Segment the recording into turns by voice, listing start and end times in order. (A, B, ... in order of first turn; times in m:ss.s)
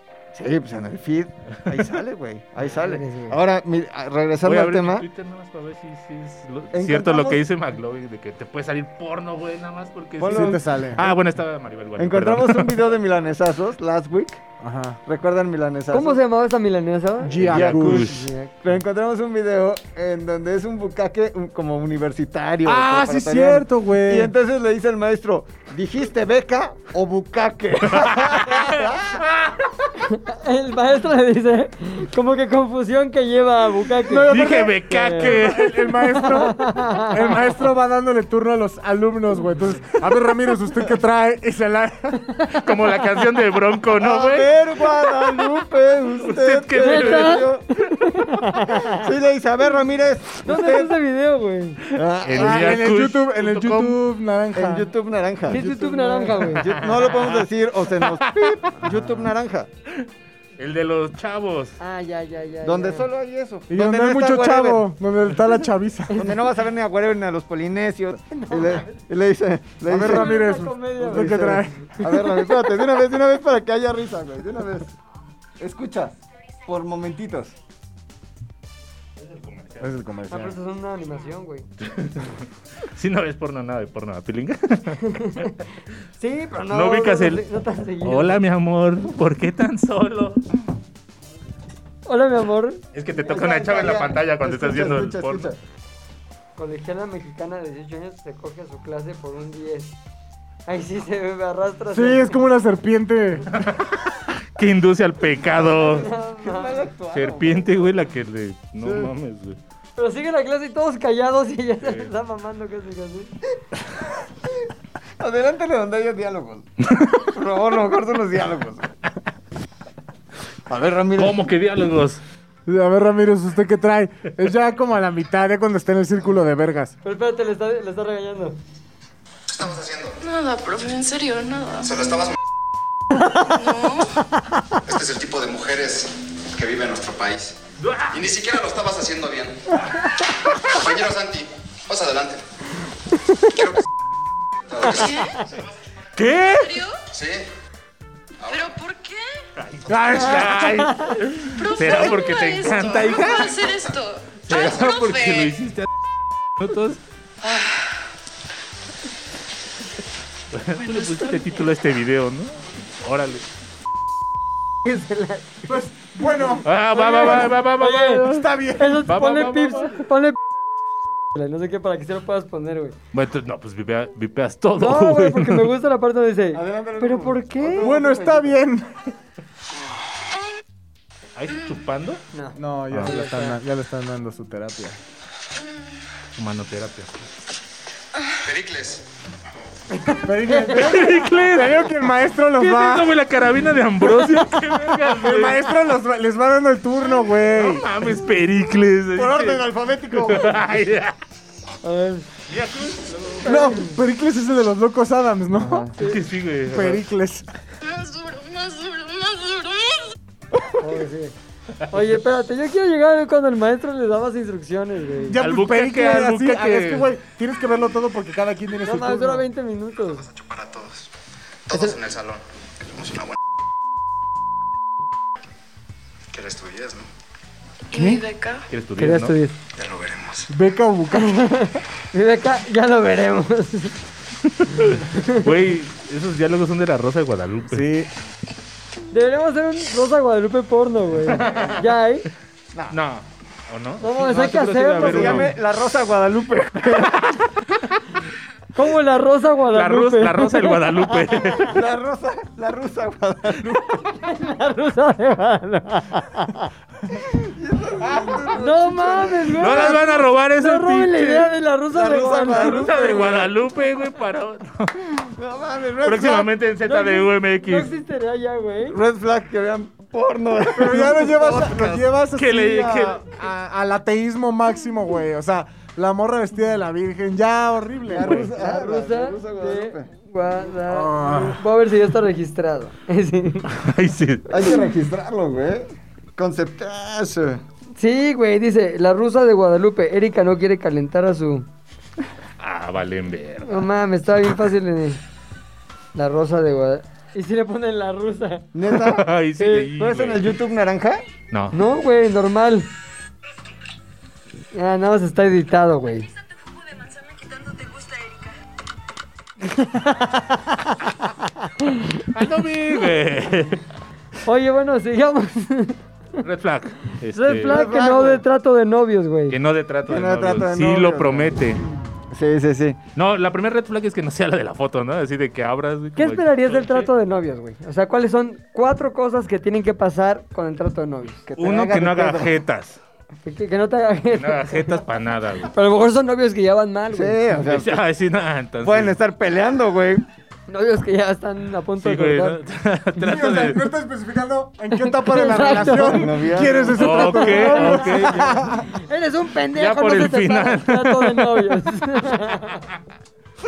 0:00.3-0:05.0 A
0:02.6-0:03.4 B
0:04.4-0:12.9 C
0:06.7-0:07.4 A
0:10.2-0:11.1 A
0:10.2-0:11.0 D
0:12.0-0:14.4 A
0:14.6-0:15.0 D
0:15.0-0:16.2 A
0:15.9-0:18.5 B
0:17.2-0:18.1 D
0:17.4-0:18.3 C
0:17.5-0:29.9 A
0:22.6-0:24.3 D
0:27.9-0:28.8 C
0:30.1-0:34.3 B
0:34.0-0:42.2 D
0:34.3-0:36.0 C
0:34.9-0:35.4 B
0:36.1-0:37.4 B
0:42.3-0:42.6 B
0:42.5-0:45.4 C
0:44.0-0:47.6 A
0:46.2-0:47.5 C
0:46.8-0:49.0 B
0:48.7-0:50.9 A
0:50.4-0:51.8 B
0:51.9-0:52.9 A
0:52.2-0:54.0 C
0:52.4-0:54.9 D
0:54.5-0:55.7 A
0:55.5-0:56.7 B
0:55.5-0:56.3 D
0:56.2-0:59.7 A
0:56.6-0:58.8 C
1:00.6-1:01.8 C
1:01.8-1:03.1 B
1:02.6-1:04.8 A
1:03.7-1:06.4 D
1:06.1-1:10.3 A
1:08.3-1:08.9 B
1:09.9-1:12.2 D
1:09.9-1:11.6 B
1:11.0-1:14.9 A
1:15.6-1:17.5 A
1:19.2-1:19.9 C
1:19.8-1:20.6 D
1:20.3-1:21.6 B
1:21.8-1:25.5 C
1:25.0-1:25.6 B
1:26.2-1:28.4 B
1:26.7-1:27.4 C
1:28.0-1:30.4 C
1:32.0-1:32.8 B
1:32.9-1:35.5 C
1:33.2-1:35.6 A
1:36.6-1:40.0 B
1:40.7-1:42.4 B
1:41.9-1:43.5 D
1:43.5-1:44.0 C
1:44.6-1:46.1 C
1:45.5-1:47.9 A
1:45.8-1:46.9 B
1:47.1-1:49.6 C
1:48.8-1:49.1 A
1:50.0-1:53.3 B
1:51.8-1:52.1 C
1:55.2-1:58.9 A
2:00.7-2:01.4 A
2:01.2-2:02.2 C
2:02.6-2:06.9 D
2:07.0-2:08.6 B
2:09.5-2:10.2 E
2:10.2-2:12.0 F
2:11.9-2:12.3 E
2:13.4-2:14.1 F
2:14.8-2:17.6 E
2:17.8-2:18.2 C
2:18.1-2:19.6 E
2:20.6-2:22.4 E
2:23.5-2:23.8 E
2:24.7-2:25.3 E
2:24.8-2:25.4 F
2:26.2-2:26.8 C
2:26.5-2:27.0 F
2:27.1-2:27.4 E
2:28.4-2:28.7 E
2:28.5-2:29.3 F
2:29.6-2:33.5 C
2:29.9-2:30.9 D
2:31.5-2:35.5 F
2:33.1-2:34.0 E
2:34.4-2:35.9 C
2:36.6-2:37.0 C
2:37.4-2:37.8 F
2:40.5-2:43.4 C
2:44.8-2:45.6 B
2:45.7-2:49.1 D
2:46.6-2:48.5 C
2:47.8-2:48.2 B
2:48.8-2:50.4 B
2:49.0-2:50.0 C
2:51.3-2:52.9 B
2:53.1-2:55.7 C
2:54.8-2:57.9 B
2:56.5-2:58.6 A
2:57.8-2:58.9 D
3:01.4-3:02.2 C
3:02.3-3:03.6 B
3:02.6-3:05.0 D
3:06.4-3:07.2 C
3:08.4-3:09.0 E
3:10.1-3:10.7 B
3:10.1-3:13.2 D
3:10.7-3:11.9 C
3:12.6-3:15.6 C
3:14.0-3:17.9 D
3:17.5-3:21.1 C
3:19.2-3:20.6 A
3:21.8-3:22.3 B
3:22.5-3:23.4 C
3:23.4-3:25.9 D
3:23.4-3:23.9 B
3:25.6-3:25.9 A
3:26.0-3:27.0 C
3:26.7-3:27.5 D
3:28.0-3:29.6 F
3:30.8-3:31.3 B
3:31.9-3:35.4 B
3:35.3-3:39.5 D
3:35.3-3:37.1 C
3:38.8-3:40.2 B
3:40.1-3:41.1 E
3:41.7-3:43.3 E
3:41.7-3:42.0 B
3:46.3-3:47.1 E
3:47.9-3:48.6 F
3:47.9-3:48.2 D
3:48.7-3:49.4 C
3:49.0-3:49.6 B
3:49.8-3:50.5 E
3:50.5-3:51.5 D
3:51.1-3:53.9 B
3:54.5-3:57.9 C
3:55.0-3:55.4 B
3:57.7-3:58.1 D
3:59.1-4:02.3 B
4:01.3-4:01.8 C
4:02.9-4:05.5 C
4:04.0-4:05.5 B
4:05.0-4:07.5 A
4:08.7-4:11.6 B
4:09.7-4:11.8 C
4:11.6-4:14.2 A
4:14.2-4:16.7 B
4:17.1-4:20.0 A
4:18.0-4:18.4 D
4:18.5-4:23.0 B
4:19.5-4:21.5 C
4:21.9-4:23.5 A
4:22.2-4:24.9 C
4:25.0-4:26.5 A
4:26.0-4:27.9 C
4:26.8-4:29.0 B
4:28.9-4:32.0 A
4:30.7-4:38.5 D
4:32.4-4:33.3 C
4:38.1-4:40.0 A
4:38.5-4:43.7 B
4:40.9-4:41.6 D
4:43.7-4:44.8 C
4:44.5-4:47.6 A
4:48.0-4:51.7 B
4:52.6-4:53.9 C
4:53.6-4:55.2 B
4:56.1-4:58.7 B
4:58.7-4:59.3 A
4:58.9-5:00.6 C
4:59.6-4:59.9 B
4:59.9-5:01.2 A
5:01.5-5:01.8 C
5:01.7-5:02.9 B
5:04.7-5:06.3 B
5:09.6-5:12.2 B
5:12.3-5:13.8 C
5:14.4-5:16.4 B
5:16.4-5:17.8 C
5:17.3-5:19.6 B
5:17.5-5:18.4 A
5:19.5-5:21.8 C
5:20.1-5:23.0 A
5:23.2-5:27.1 C
5:26.2-5:31.4 B
5:31.5-5:32.6 A
5:31.6-5:33.0 C
5:33.4-5:35.0 B
5:34.3-5:35.7 C
5:35.7-5:37.6 B
5:37.1-5:38.0 A
5:37.6-5:39.2 C
5:38.8-5:40.2 A
5:40.7-5:42.6 B
5:42.0-5:43.9 C
5:43.2-5:48.9 D
5:44.9-5:52.8 B
5:45.8-5:47.0 A
5:47.0-5:48.6 C
5:49.7-5:51.6 C